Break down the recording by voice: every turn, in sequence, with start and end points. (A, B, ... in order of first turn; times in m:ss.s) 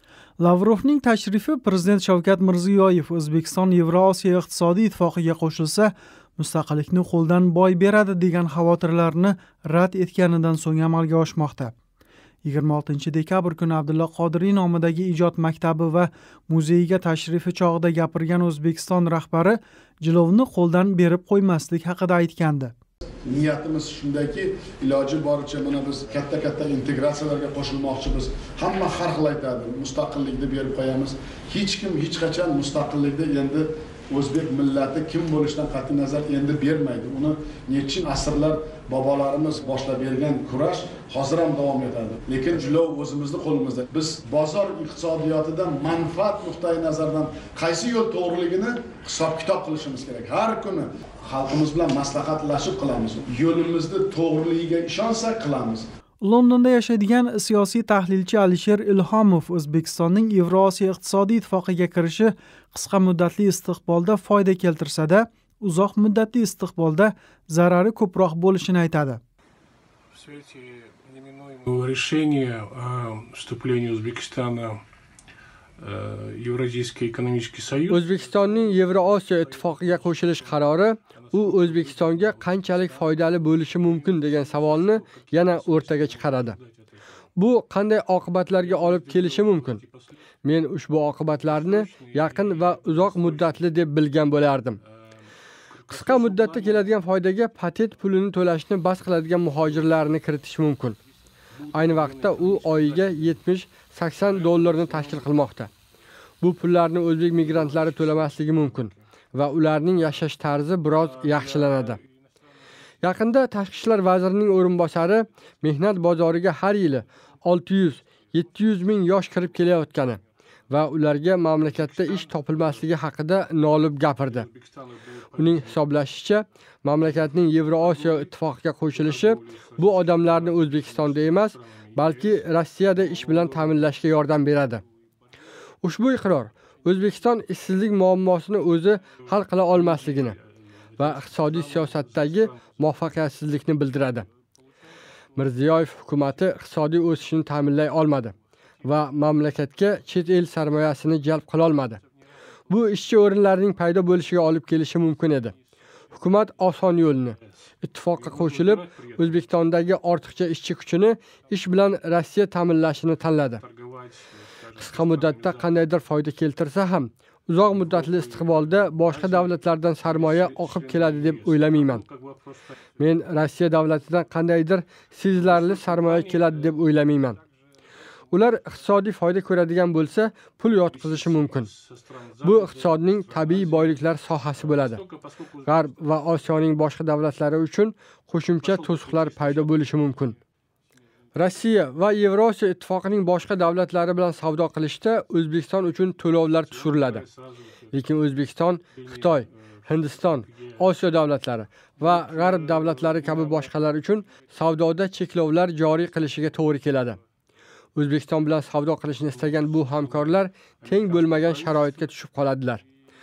0:00.4-0:11.7 A
0:12.4-0:22.7 A
0:23.2-0:55.8 B
0:56.2-1:09.2 A
1:10.1-1:14.8 C
1:15.8-1:26.9 C
1:17.9-1:26.6 D
1:27.4-1:29.8 D
1:28.6-1:30.2 C
1:30.4-1:34.8 D
1:31.3-1:33.6 C
1:35.7-1:36.9 C
1:35.9-1:41.0 D
1:39.7-1:40.0 C
1:41.6-1:43.4 C
1:41.7-1:45.7 D
1:44.2-1:45.5 C
1:46.4-1:52.0 D
1:47.3-1:48.9 C
1:50.9-1:52.1 C
1:53.0-2:00.2 D
2:00.7-2:04.5 D
2:01.6-2:02.9 C
2:04.2-2:05.8 C
2:05.4-2:14.8 D
2:07.7-2:08.3 C
2:08.8-2:13.9 C
2:15.8-2:20.4 D
2:19.2-2:20.4 C
2:21.0-2:22.8 C
2:21.0-2:24.2 D
2:25.4-2:28.3 D
2:28.8-2:32.0 D
2:32.7-2:35.5 D
2:36.1-2:43.6 D
2:38.1-2:39.5 C
2:43.5-2:45.8 C
2:44.8-2:52.0 D
2:47.7-2:52.8 C
2:53.0-2:57.4 D
2:55.4-2:56.8 C
2:58.3-3:01.7 D
3:00.9-3:05.9 C
3:02.4-3:05.0 D
3:05.6-3:10.3 D
3:08.6-3:10.0 C
3:11.3-3:17.2 D
3:16.7-3:18.2 C
3:17.9-3:27.2 D
3:18.9-3:21.0 C
3:22.0-3:23.7 C
3:28.0-3:32.8 D
3:29.3-3:32.2 C